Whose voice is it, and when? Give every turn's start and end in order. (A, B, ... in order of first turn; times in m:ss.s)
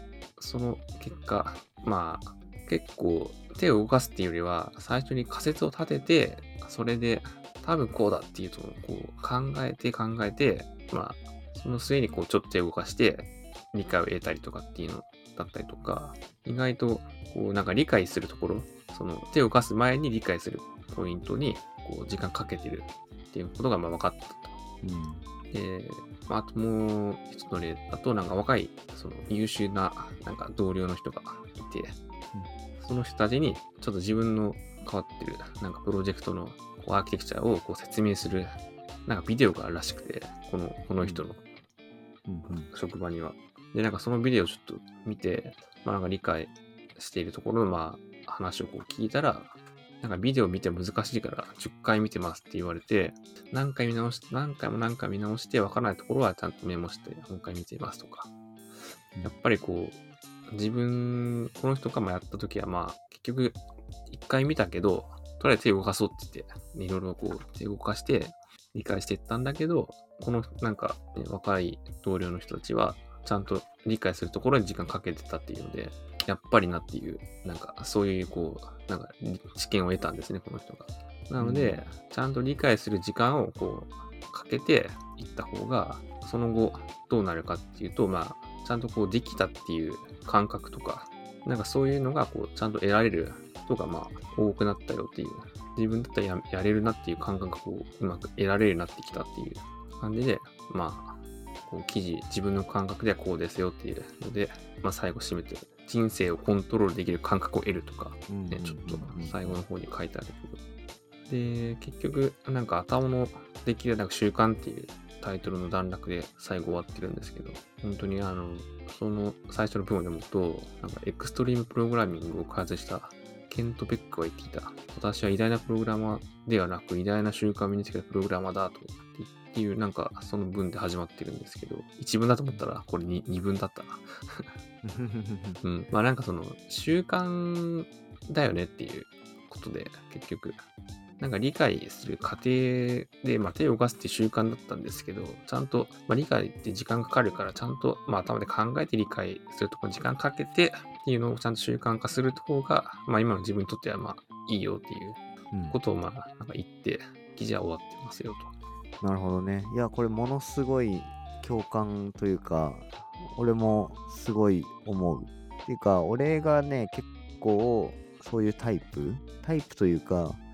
0:00.4-0:24.6 A
0:24.8-0:25.2 B
0:25.5-0:32.0 A
0:32.8-0:41.4 A
0:41.0-0:41.3 B
0:42.3-0:42.7 B
0:42.7-0:58.3 A
0:59.2-1:50.6 A
1:21.4-1:21.9 B
1:48.3-1:49.6 B
1:51.3-2:14.6 A
2:14.8-2:15.6 B
2:15.6-2:20.6 A
2:21.2-2:35.2 A
2:35.5-2:35.8 B
2:35.7-2:38.5 A
2:39.0-2:50.4 B